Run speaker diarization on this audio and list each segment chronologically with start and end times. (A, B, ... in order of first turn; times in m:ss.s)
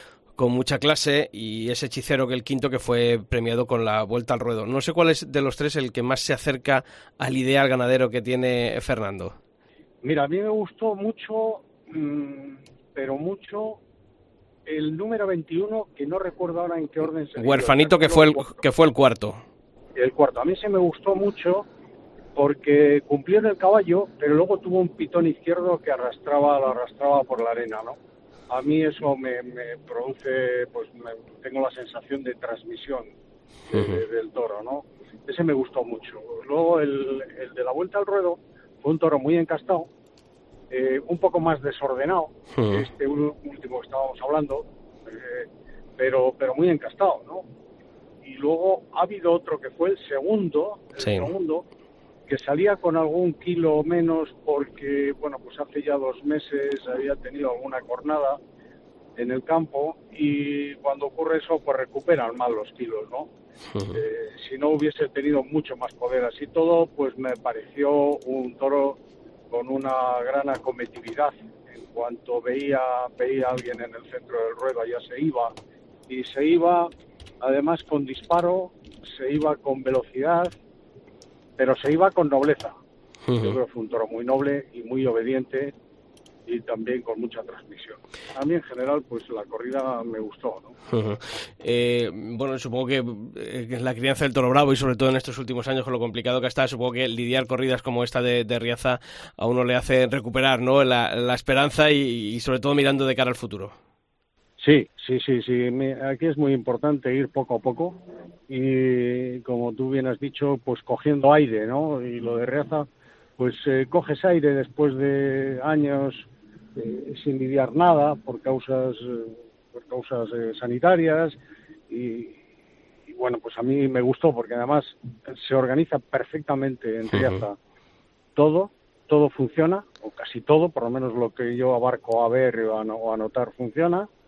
0:00.4-0:09.4 A
0:10.0-0:13.8 B
0:14.6-0:18.6 B
0:17.4-0:19.4 A
0:20.0-0:21.7 B
0:22.4-0:28.0 B
0:28.5-0:33.1 B
0:33.7-0:39.9 B
0:33.7-0:34.0 A
0:40.7-0:47.4 B
0:42.6-0:42.8 A
0:48.2-0:51.6 B
0:51.0-0:51.3 A
0:52.3-0:58.4 B
0:59.2-1:03.3 B
1:03.7-1:04.0 A
1:03.9-1:09.0 B
1:09.5-1:15.5 B
1:16.1-1:20.5 B
1:21.6-1:22.8 B
1:23.3-1:23.6 A
1:23.4-1:25.7 B
1:26.4-1:30.7 B
1:30.9-1:43.7 A
1:44.6-2:01.4 B
2:01.9-2:02.4 B
2:03.1-2:07.6 B
2:07.1-2:07.4 A
2:08.4-2:14.1 B